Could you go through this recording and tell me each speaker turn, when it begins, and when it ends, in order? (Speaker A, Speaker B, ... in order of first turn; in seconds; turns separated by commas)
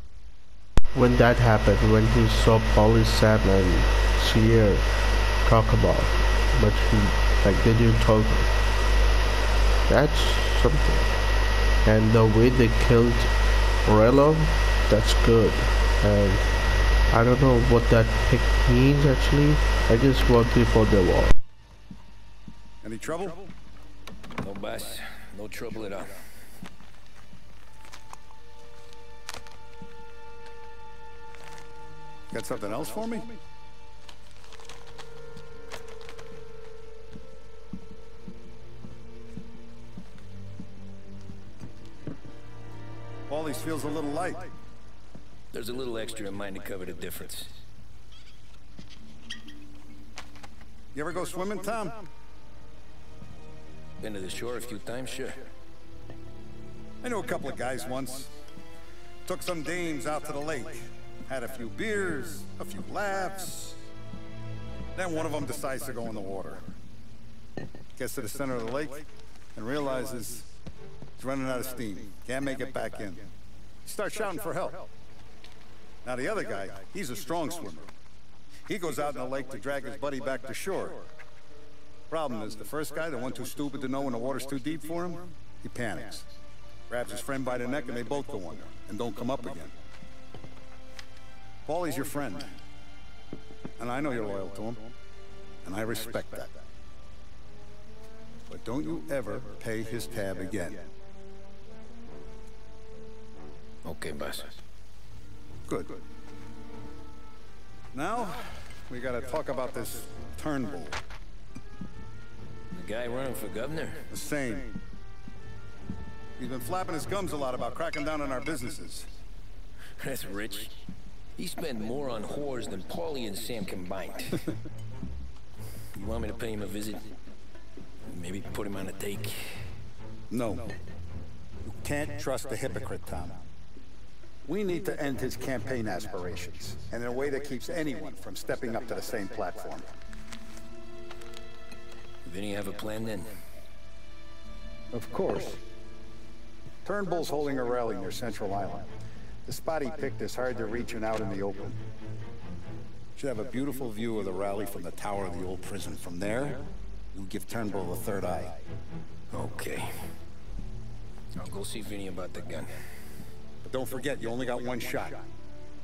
Speaker A: 0.9-9.0, Speaker A: 9.9-21.4, Speaker B: 22.8-23.5, Speaker C: 24.4-26.2, Speaker B: 32.3-33.4, Speaker B: 43.3-44.5, Speaker C: 45.5-47.6, Speaker B: 50.9-52.1, Speaker C: 54.0-55.5, Speaker B: 57.0-58.4, Speaker B: 59.2-63.9, Speaker B: 65.0-66.7, Speaker B: 68.0-70.6, Speaker B: 71.2-73.3, Speaker B: 73.8-74.9, Speaker B: 76.0-77.9, Speaker B: 78.7-81.1, Speaker B: 82.1-86.3, Speaker B: 86.9-89.8, Speaker B: 91.7-92.5, Speaker B: 93.8-94.9, Speaker B: 95.6-96.6, Speaker B: 98.5-100.9, Speaker C: 103.8-104.6, Speaker B: 105.7-106.0, Speaker B: 107.9-111.0, Speaker C: 112.7-114.1, Speaker B: 114.1-114.8, Speaker B: 116.4-119.1, Speaker C: 120.0-120.8, Speaker C: 121.4-124.5, Speaker C: 125.9-127.1, Speaker C: 128.1-129.6, Speaker B: 130.3-130.8, Speaker B: 131.7-133.4, Speaker B: 134.4-139.9, Speaker C: 142.2-143.3, Speaker B: 144.9-145.6, Speaker B: 146.8-148.9, Speaker B: 149.4-151.8, Speaker B: 153.2-158.6, Speaker C: 159.3-160.1, Speaker C: 161.4-162.8, Speaker B: 163.6-165.3